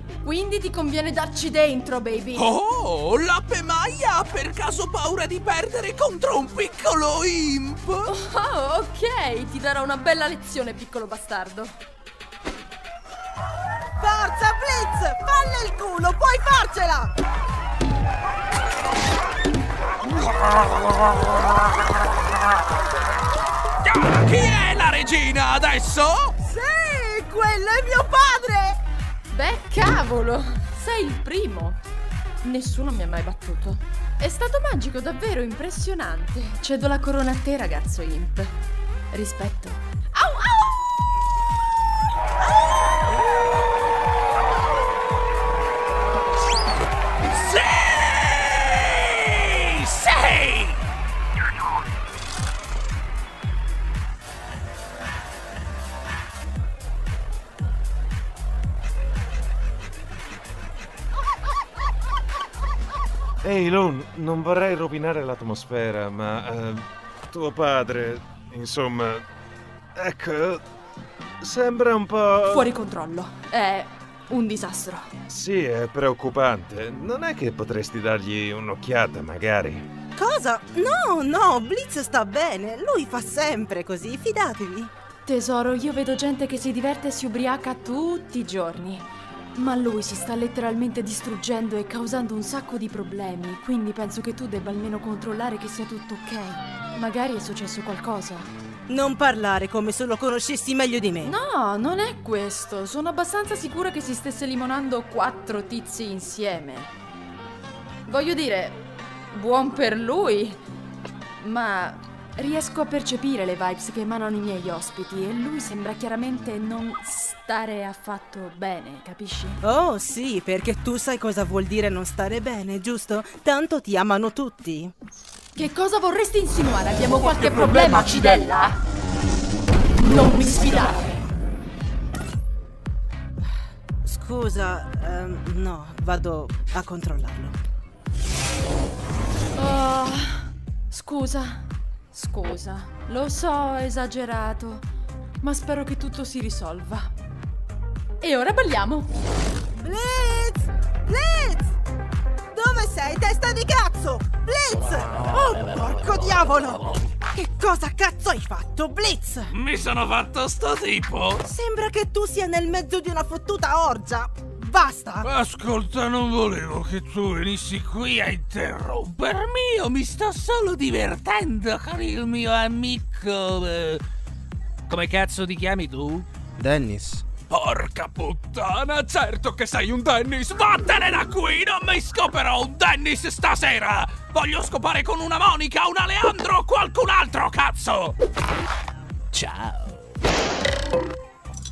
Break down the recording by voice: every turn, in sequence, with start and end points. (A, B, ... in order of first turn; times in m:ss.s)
0:00.2-0:02.5 A
0:02.4-0:08.1 B
0:08.1-0:11.8 A
0:14.0-0:17.1 C
0:23.8-0:26.3 B
0:26.4-0:28.8 C
0:29.3-0:31.8 A
0:32.4-0:38.6 A
0:39.1-0:40.7 A
0:47.3-0:50.8 B
1:03.4-1:09.3 D
1:10.0-1:10.6 D
1:11.4-1:12.6 D
1:12.5-1:15.1 A
1:15.3-1:19.9 D
1:20.2-1:24.9 C
1:25.2-1:38.5 A
1:38.9-1:41.4 C
1:41.2-1:46.9 A
1:48.1-1:50.6 A
1:51.4-1:59.6 A
1:59.6-2:04.9 C
2:05.6-2:08.8 A
2:10.0-2:11.2 A
2:14.0-2:17.6 C
2:19.6-2:24.8 A
2:25.4-2:27.1 A
2:28.2-2:29.1 A
2:29.8-2:31.8 C
2:32.5-2:39.5 C
2:39.5-2:41.4 B
2:41.4-2:45.3 C
2:45.2-2:54.0 B
2:54.9-2:56.3 B
2:56.6-2:57.2 C
2:57.5-3:08.2 B
3:09.3-3:10.1 B